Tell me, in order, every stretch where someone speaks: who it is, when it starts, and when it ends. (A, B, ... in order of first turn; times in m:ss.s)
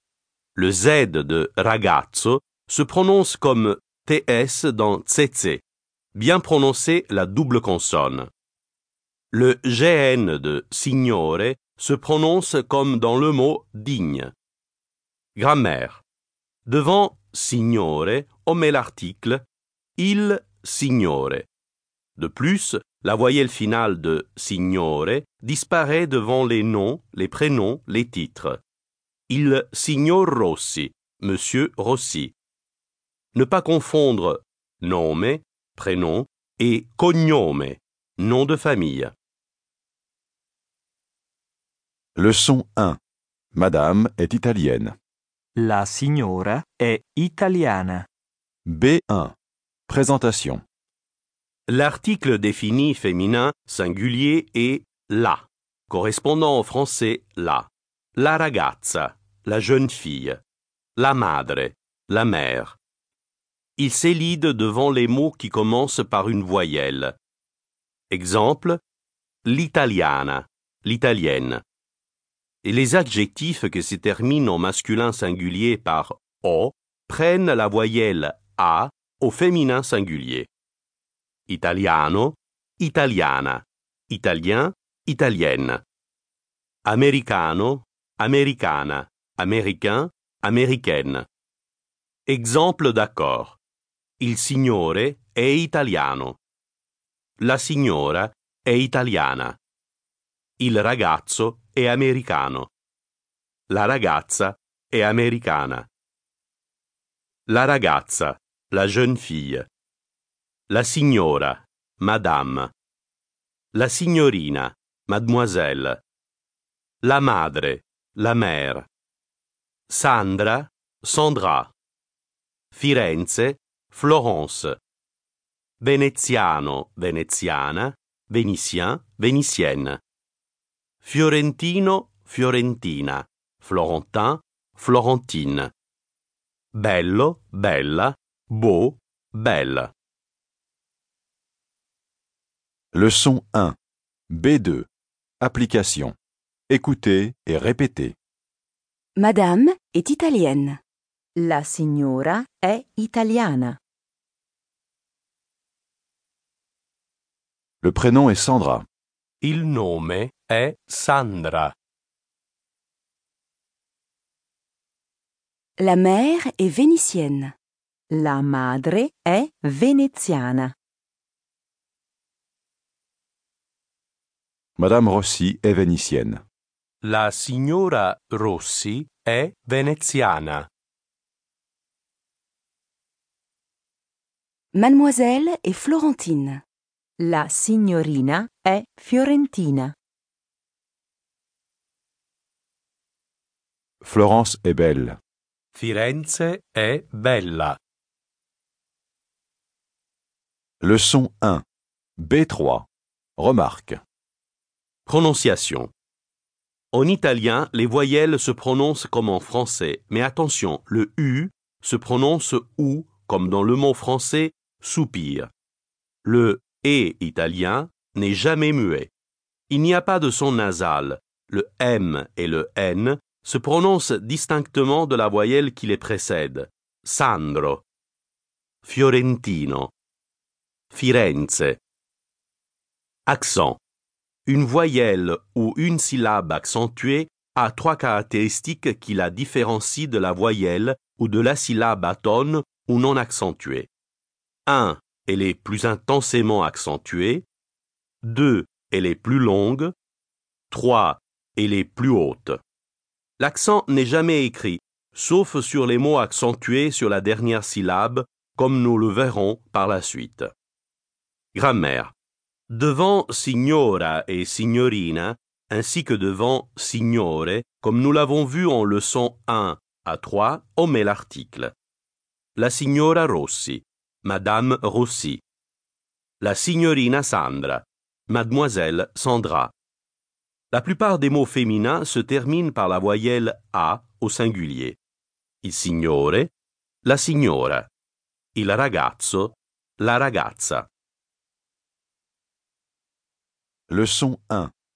0:00.6-0:05.6 A
0:06.2-0:08.3 A
0:09.3-0:14.3 A
0:15.4-0:16.0 A
0:16.6-0:19.4 A
0:20.0-0:21.4 A
0:22.2-0:28.6 A
0:29.3-0:32.3 A
0:33.3-0:39.1 A
0:42.2-0:43.0 B
0:43.5-0:45.0 B
0:45.6-0:48.1 C
0:48.7-0:49.4 B
0:49.9-0:50.6 B
0:51.7-1:00.4 A
1:01.0-1:02.8 A
1:03.8-1:07.1 A
1:08.1-1:08.8 A
1:09.4-1:11.6 A
1:12.6-1:20.5 A
1:21.5-1:25.8 A
1:26.8-1:31.3 A
1:32.3-1:33.6 A
1:34.2-1:36.4 A
1:37.4-1:39.6 A
1:40.6-1:42.7 A
1:43.7-1:45.9 A
1:47.5-1:49.7 A
1:50.7-1:52.7 A
1:53.7-1:56.0 A
1:57.0-1:58.9 A
1:59.9-2:01.7 A
2:02.7-2:04.8 A
2:05.8-2:10.0 A
2:11.0-2:15.7 A
2:16.7-2:19.9 A
2:22.9-2:23.8 B
2:24.3-2:24.9 B
2:25.4-2:26.2 B
2:26.7-2:28.1 B
2:29.2-2:30.8 D
2:31.4-2:33.8 E
2:37.8-2:38.8 B
2:39.4-2:41.7 A
2:45.8-2:47.5 D
2:48.1-2:50.7 E
2:54.8-2:56.4 B
2:57.0-3:00.7 A
3:04.7-3:06.6 D
3:07.2-3:09.9 E
3:14.0-3:15.2 B
3:15.7-3:17.8 A
3:20.8-3:21.6 B
3:22.2-3:24.0 B
3:25.0-3:25.9 A
3:26.9-3:35.5 A
3:36.2-3:39.1 A
3:39.7-3:47.8 A
3:48.8-3:49.9 A
3:50.9-3:51.8 A
3:53.3-3:53.8 A
3:54.4-4:03.9 A
4:04.7-4:07.4 A
4:08.2-4:09.9 A
4:10.7-4:12.6 A
4:13.4-4:20.5 A
4:21.5-4:22.1 A
4:22.7-4:31.7 A
4:32.6-4:35.4 A
4:36.4-4:39.7 A
4:40.7-4:45.0 A
4:45.6-4:46.5 A
4:47.0-4:47.9 A
4:48.6-4:50.9 A
4:53.9-4:54.7 B